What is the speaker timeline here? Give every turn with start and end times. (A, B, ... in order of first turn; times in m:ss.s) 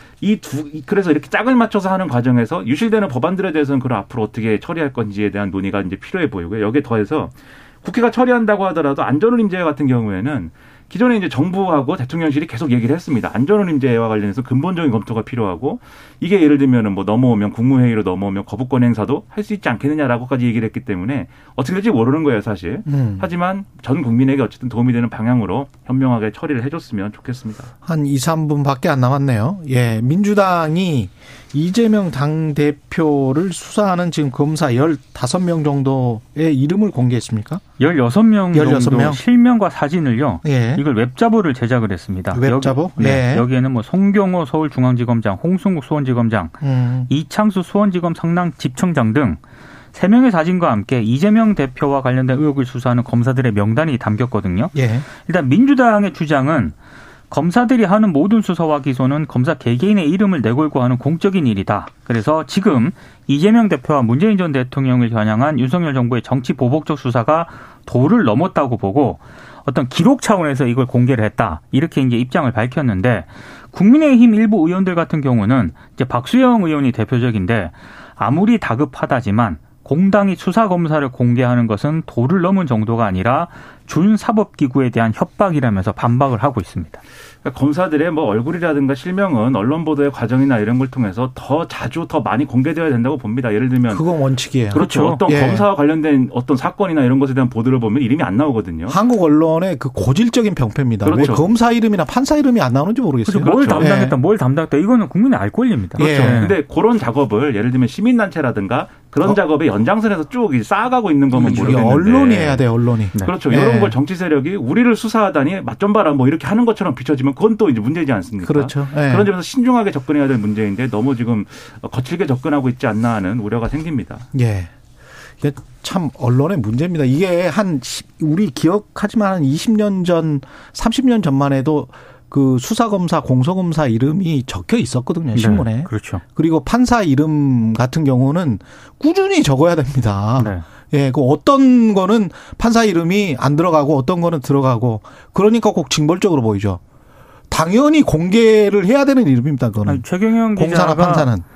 0:00.2-0:27.7 A
0:22.9-0:23.3 B
0:27.8-0:37.6 B
0:37.8-0:46.6 C
0:38.5-0:39.2 B
0:40.4-0:40.8 B
0:42.3-0:43.5 B
0:46.6-0:47.1 B
0:47.1-0:49.4 C
0:49.9-0:56.8 C
0:54.7-0:55.1 B
0:57.3-1:27.0 C
1:27.4-1:34.1 A
1:33.9-1:35.7 B
1:34.7-1:39.0 A
1:34.7-1:35.2 C
1:38.9-1:44.2 B
1:41.0-1:41.5 A
1:43.3-1:46.6 C
1:43.4-1:43.9 A
1:46.0-1:46.5 B
1:46.0-1:52.6 A
1:51.3-1:54.0 B
1:53.2-2:04.3 A
1:58.4-1:59.3 B
2:04.3-2:04.7 B
2:05.4-2:26.8 B
2:15.4-2:16.2 C
2:20.4-2:20.6 C
2:27.5-2:31.5 B
2:29.9-2:31.3 C